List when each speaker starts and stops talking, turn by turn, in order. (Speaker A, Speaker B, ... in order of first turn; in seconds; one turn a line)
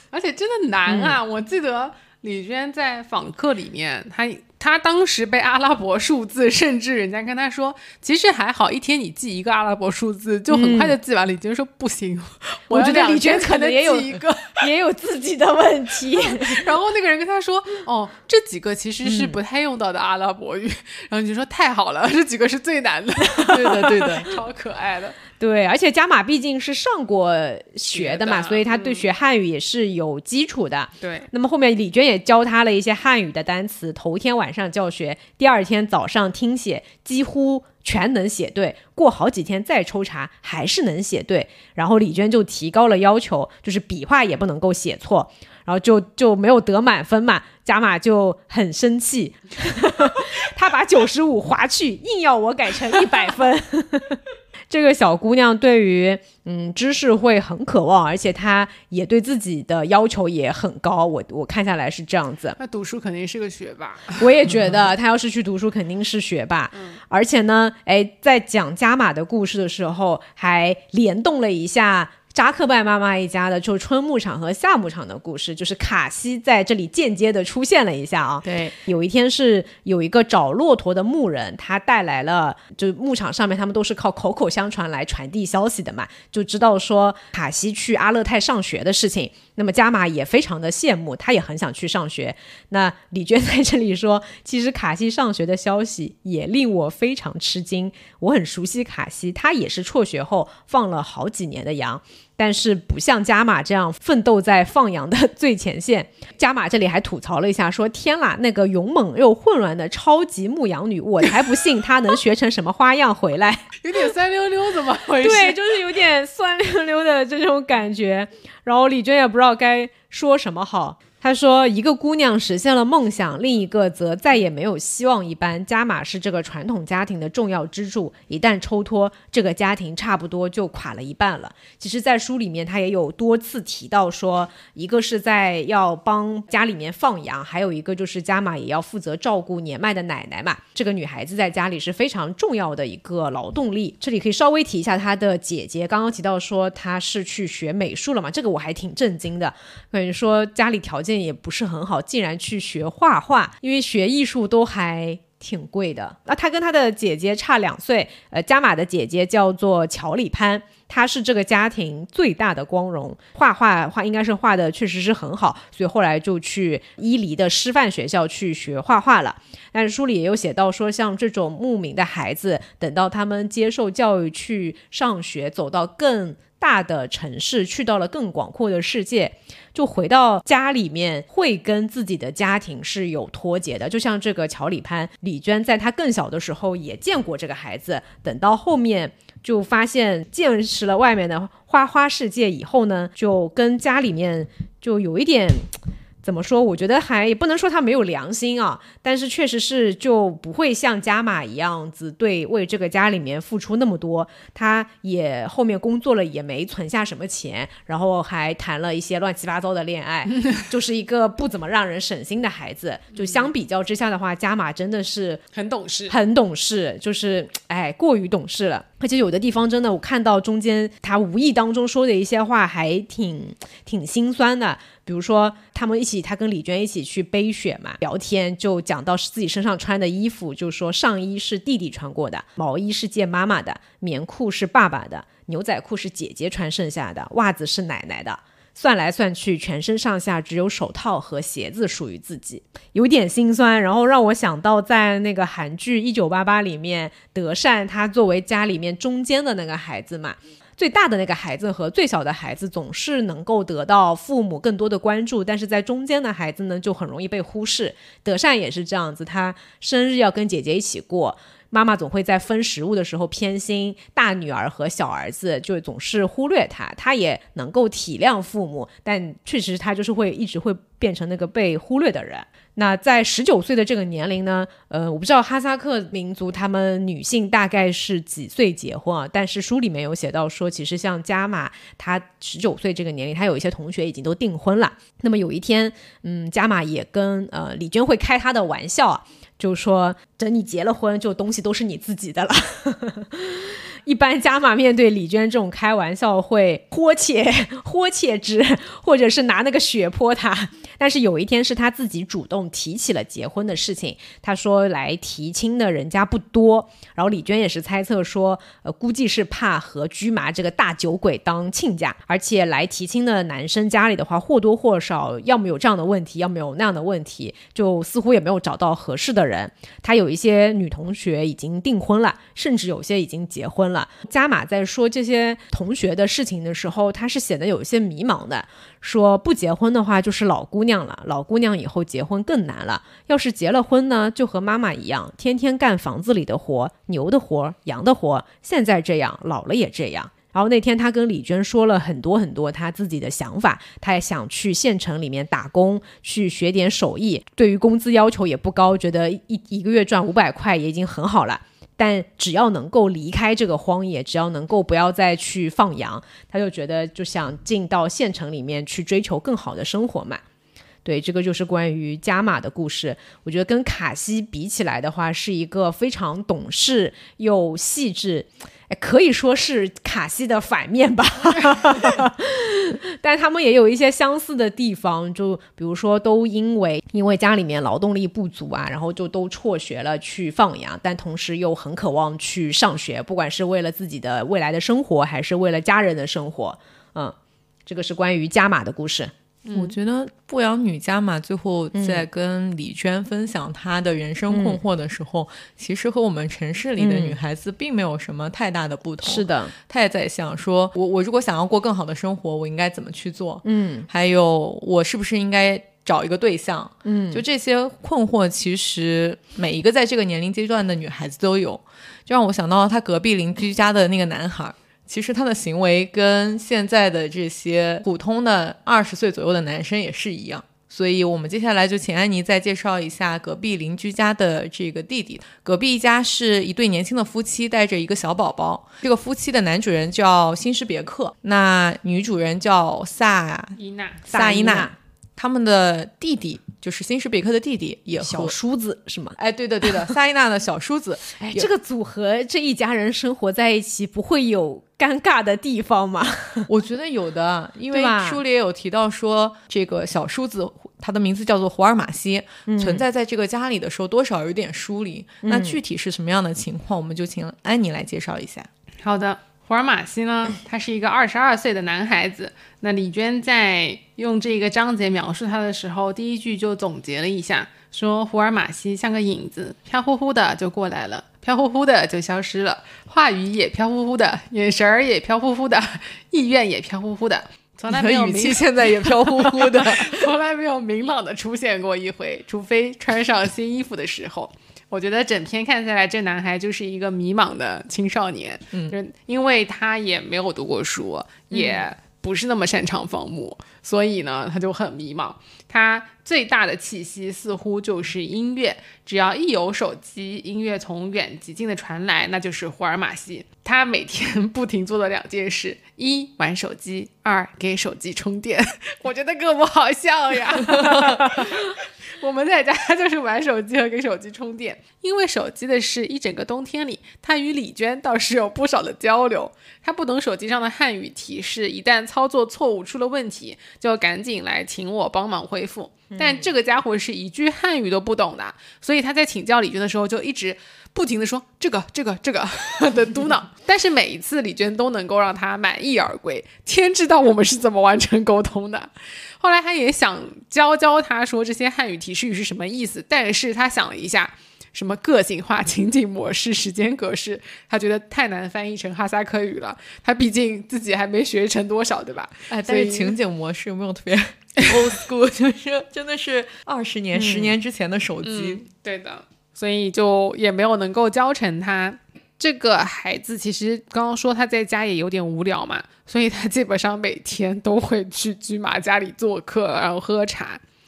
Speaker A: 0.1-14.7
Speaker B: 0.9-1.2
Speaker B: 10.5-10.9
Speaker B: 12.7-16.6
Speaker A: 16.3-25.2
Speaker B: 19.0-19.4
Speaker B: 23.4-24.1
Speaker C: 23.5-24.3
Speaker B: 25.4-62.6
Speaker A: 27.9-29.1
Speaker A: 31.0-31.3
Speaker A: 62.6-64.3
Speaker B: 64.2-113.8
Speaker A: 113.8-115.6
Speaker B: 115.2-215.4
Speaker A: 215.5-216.1
Speaker B: 216.1-360.4
Speaker B: 361.0-387.3
Speaker B: 387.9-389.3
Speaker A: 389.6-389.9
Speaker C: 389.7-438.5
Speaker B: 391.9-392.2
Speaker B: 394.5-394.8
Speaker B: 397.0-397.4
Speaker B: 399.2-399.7
Speaker B: 403.6-404.1
Speaker B: 407.0-407.4
Speaker A: 433.8-434.2
Speaker B: 434.3-434.9
Speaker B: 438.2-439.4
Speaker C: 439.4-441.7
Speaker B: 439.9-440.1
Speaker B: 441.4-446.7
Speaker C: 446.7-458.7
Speaker B: 447.9-448.4
Speaker B: 452.6-453.0
Speaker B: 455.4-455.8
Speaker A: 459.0-553.1
Speaker C: 477.9-480.3
Speaker B: 526.1-526.4
Speaker C: 552.5-558.6
Speaker B: 557.1-557.6
Speaker A: 558.2-570.6